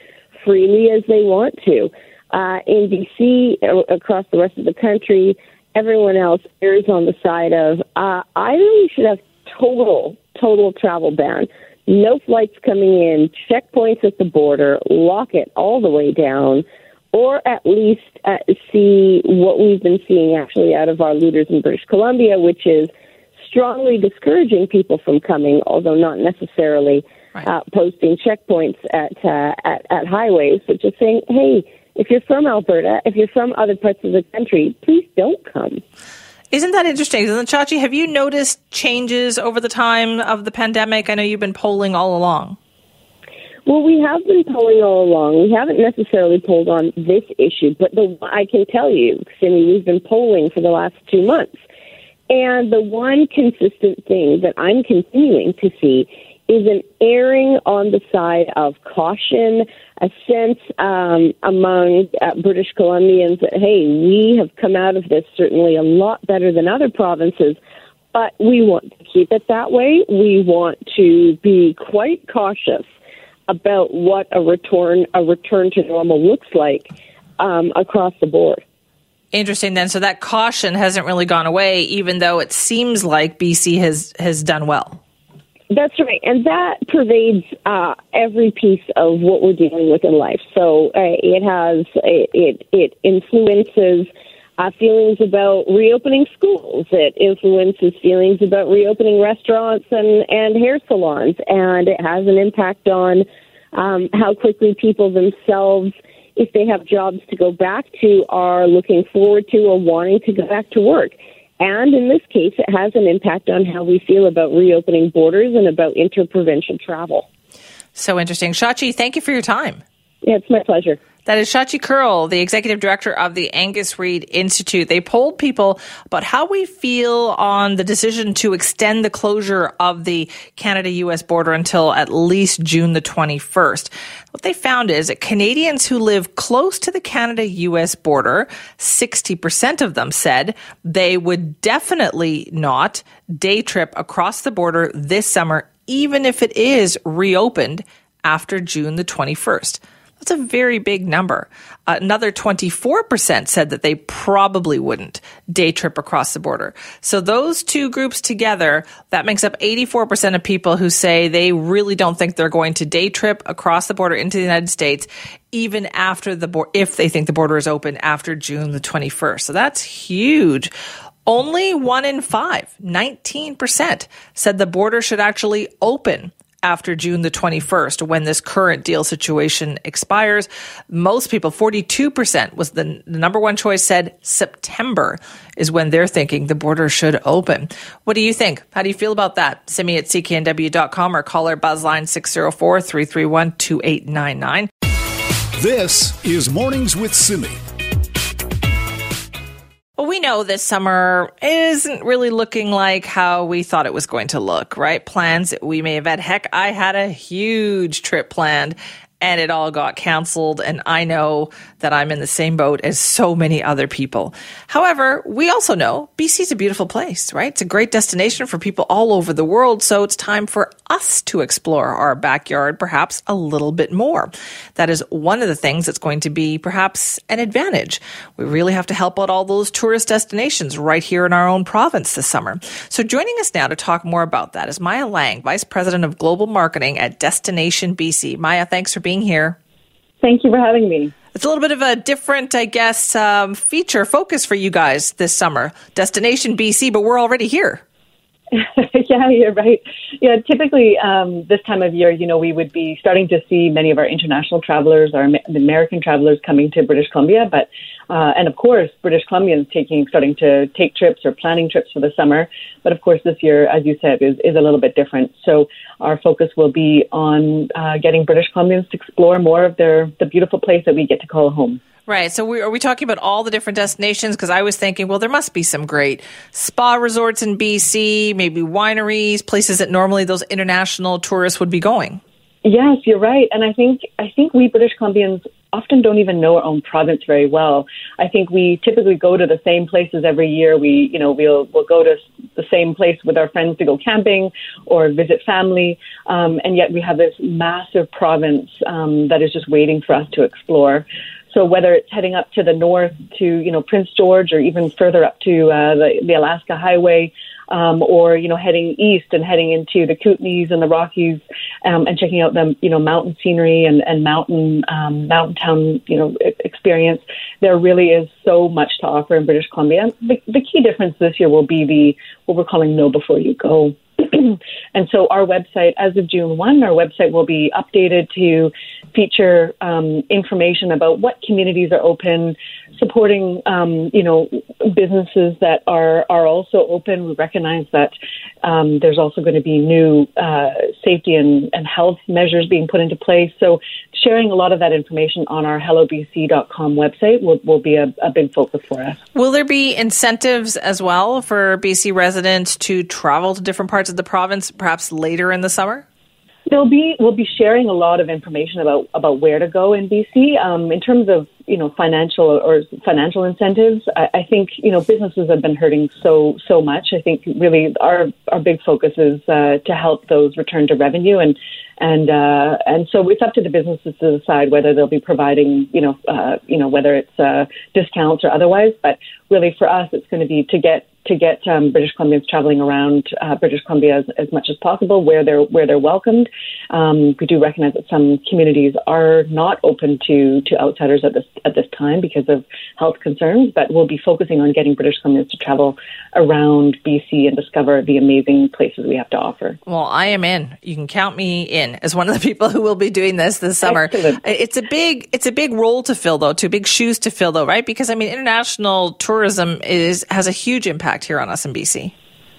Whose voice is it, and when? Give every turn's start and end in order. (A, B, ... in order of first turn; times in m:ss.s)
0:00.4-0:35.8 A
0:36.5-0:42.6 B
0:43.6-0:51.6 A
0:52.3-1:07.6 A
1:08.1-1:12.9 A
1:13.5-1:18.6 A
1:19.3-1:25.0 B
1:25.7-1:57.3 A
1:58.0-1:59.8 B
2:00.2-2:01.0 A
2:01.3-2:50.7 B
2:51.3-3:14.7 B
3:15.6-3:17.6 C
3:20.0-3:59.6 B
4:00.2-4:01.1 D
4:01.4-4:07.8 B
4:08.5-4:31.8 D
4:32.1-4:42.2 B
4:42.6-5:49.2 D
5:49.4-5:56.0 B
5:56.7-6:39.8 D
6:39.9-6:52.1 B
6:43.8-6:44.4 D